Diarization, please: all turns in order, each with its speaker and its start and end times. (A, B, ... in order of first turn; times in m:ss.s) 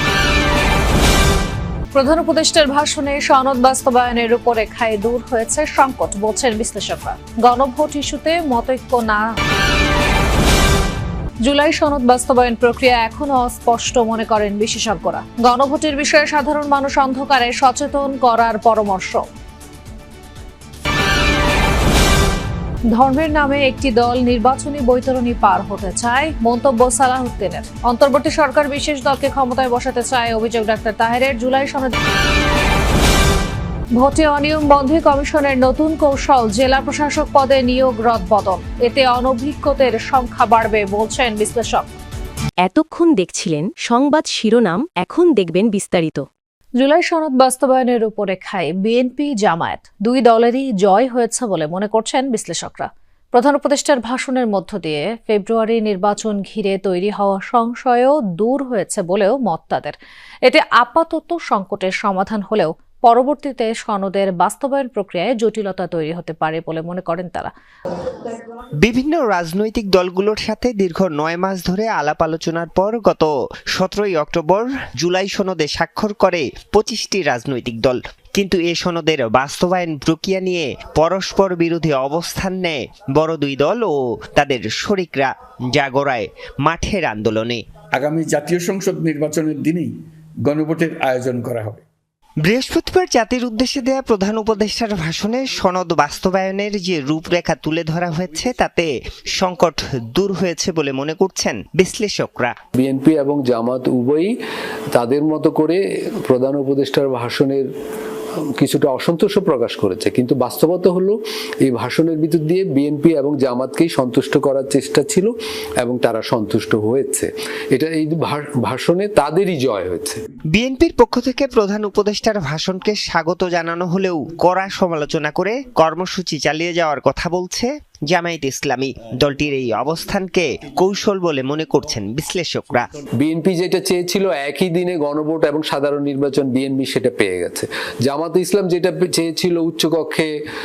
0:02.0-0:09.3 A
0:11.4-0:19.2 A
0:22.9-0:31.9 A
0:34.0-0:41.9 A
0:42.6-0:46.3 B
0:46.8-1:07.5 A
1:08.8-1:27.6 C
1:27.9-1:29.9 D
1:30.5-1:31.8 D
1:32.4-1:42.6 C
1:42.8-1:44.3 E
1:44.9-1:47.7 E
1:48.6-2:00.2 E
2:00.5-2:12.9 C
2:13.2-2:20.3 E